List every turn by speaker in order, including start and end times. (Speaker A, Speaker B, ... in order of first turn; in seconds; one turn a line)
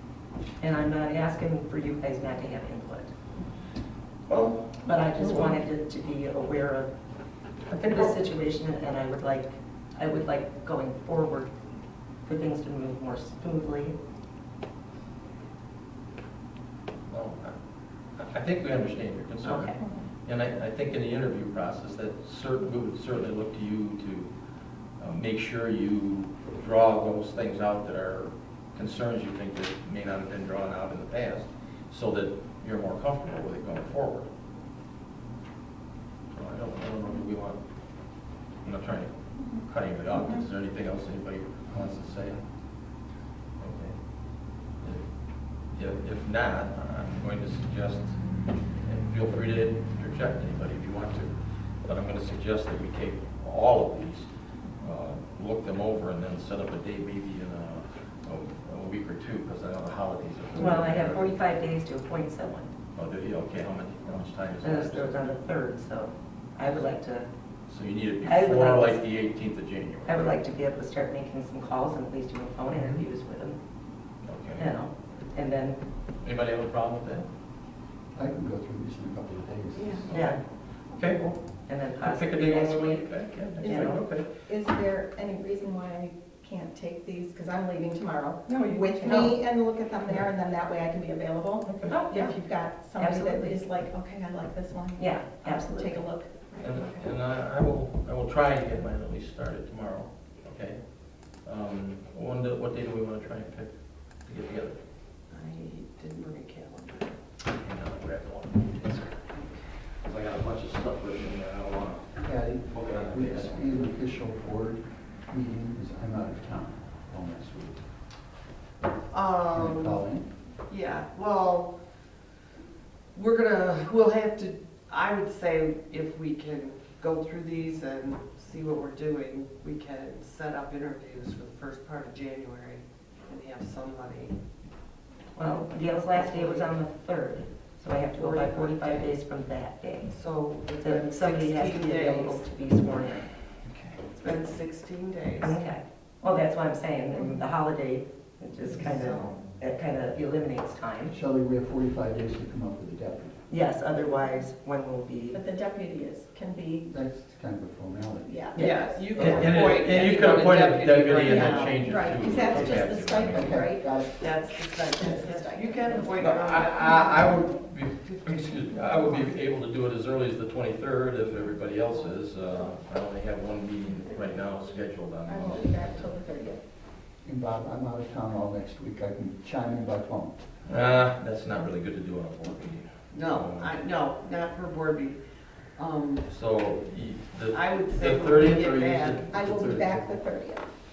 Speaker A: 0.6-3.1
Speaker B: 4.3-5.6
Speaker A: 4.8-6.9
Speaker A: 7.6-11.5
Speaker B: 7.7-8.1
Speaker A: 12.2-13.9
Speaker B: 17.1-24.3
Speaker A: 19.4-19.8
Speaker C: 19.8-20.1
Speaker B: 24.9-34.3
Speaker B: 36.3-42.4
Speaker C: 39.4-40.5
Speaker B: 43.6-61.4
Speaker A: 60.5-62.7
Speaker B: 62.9-65.3
Speaker A: 64.6-67.3
Speaker B: 67.7-70.4
Speaker A: 68.2-69.0
Speaker A: 70.0-73.6
Speaker B: 72.7-73.0
Speaker B: 74.2-74.7
Speaker A: 74.6-75.8
Speaker B: 76.2-77.3
Speaker D: 78.1-80.1
Speaker B: 80.1-84.3
Speaker A: 80.1-80.4
Speaker A: 81.6-84.0
Speaker C: 83.6-96.9
Speaker A: 88.5-89.4
Speaker B: 89.1-89.3
Speaker B: 91.6-91.9
Speaker A: 91.9-93.7
Speaker A: 95.0-96.0
Speaker B: 96.6-104.8
Speaker E: 105.3-107.2
Speaker B: 107.5-108.9
Speaker E: 109.0-109.6
Speaker B: 109.9-113.9
Speaker D: 112.2-117.8
Speaker E: 119.1-120.0
Speaker D: 119.5-120.3
Speaker E: 120.6-121.8
Speaker E: 123.1-134.4
Speaker A: 135.3-140.1
Speaker E: 135.4-136.8
Speaker E: 138.1-139.2
Speaker E: 140.0-142.6
Speaker A: 140.8-143.3
Speaker B: 143.7-143.9
Speaker E: 144.1-145.6
Speaker A: 145.4-151.2
Speaker C: 147.1-147.4
Speaker E: 148.7-149.5
Speaker D: 151.1-153.4
Speaker A: 153.5-155.4
Speaker C: 155.3-156.9
Speaker D: 156.9-158.5
Speaker C: 158.2-159.5
Speaker E: 158.5-162.8
Speaker B: 159.1-163.6
Speaker C: 161.2-167.3
Speaker D: 163.3-164.2
Speaker E: 164.2-169.4
Speaker B: 166.2-176.1
Speaker C: 175.3-176.6
Speaker D: 177.2-180.4
Speaker B: 180.7-183.8
Speaker E: 183.1-186.3
Speaker B: 186.3-190.2
Speaker E: 187.5-189.3
Speaker C: 189.3-190.7